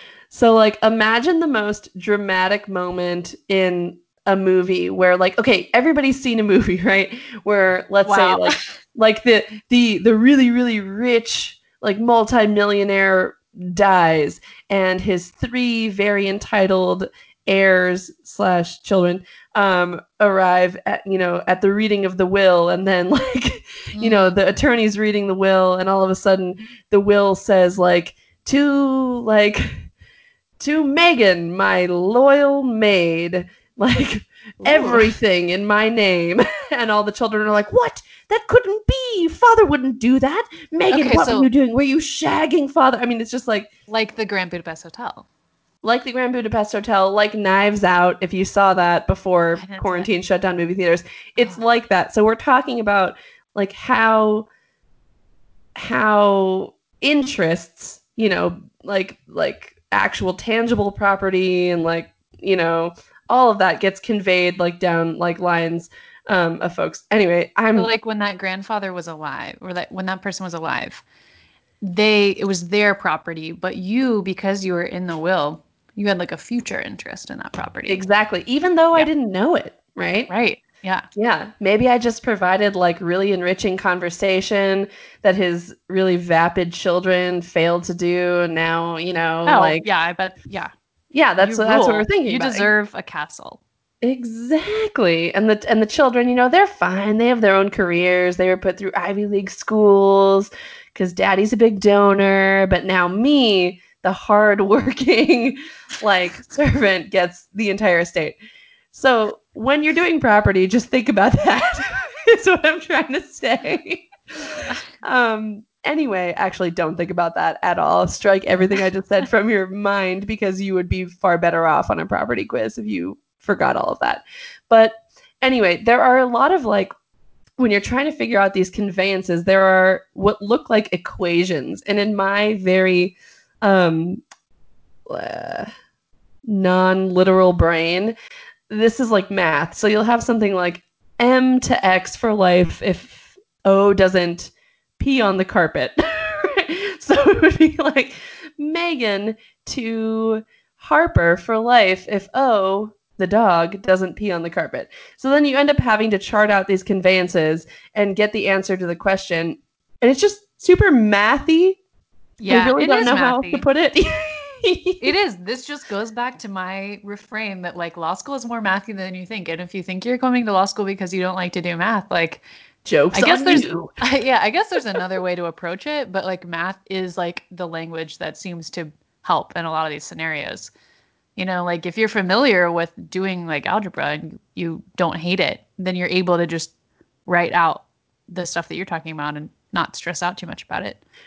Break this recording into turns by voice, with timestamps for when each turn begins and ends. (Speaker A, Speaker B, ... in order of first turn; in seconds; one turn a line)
Speaker A: 0.3-29.9
Speaker B: 8.1-8.7
Speaker B: 23.9-24.4
Speaker A: 30.6-43.7
Speaker B: 34.6-35.1
Speaker B: 40.9-41.5
Speaker B: 43.9-45.3
Speaker A: 45.8-54.5
Speaker B: 49.6-50.1
Speaker A: 55.8-67.9
Speaker B: 67.8-71.0
Speaker B: 71.8-78.0
Speaker A: 77.9-80.3
Speaker B: 80.3-81.1
Speaker A: 81.2-89.8
Speaker B: 89.5-90.7
Speaker A: 91.1-92.7
Speaker B: 91.4-93.6
Speaker A: 94.0-108.4
Speaker A: 108.9-126.9
Speaker A: 127.6-134.2
Speaker A: 135.1-135.7
Speaker A: 136.5-138.2
Speaker A: 138.7-161.8
Speaker B: 162.4-163.7
Speaker A: 162.5-165.1
Speaker B: 165.0-172.4
Speaker A: 172.8-173.9
Speaker B: 173.1-180.7
Speaker B: 181.4-186.7
Speaker B: 187.3-191.0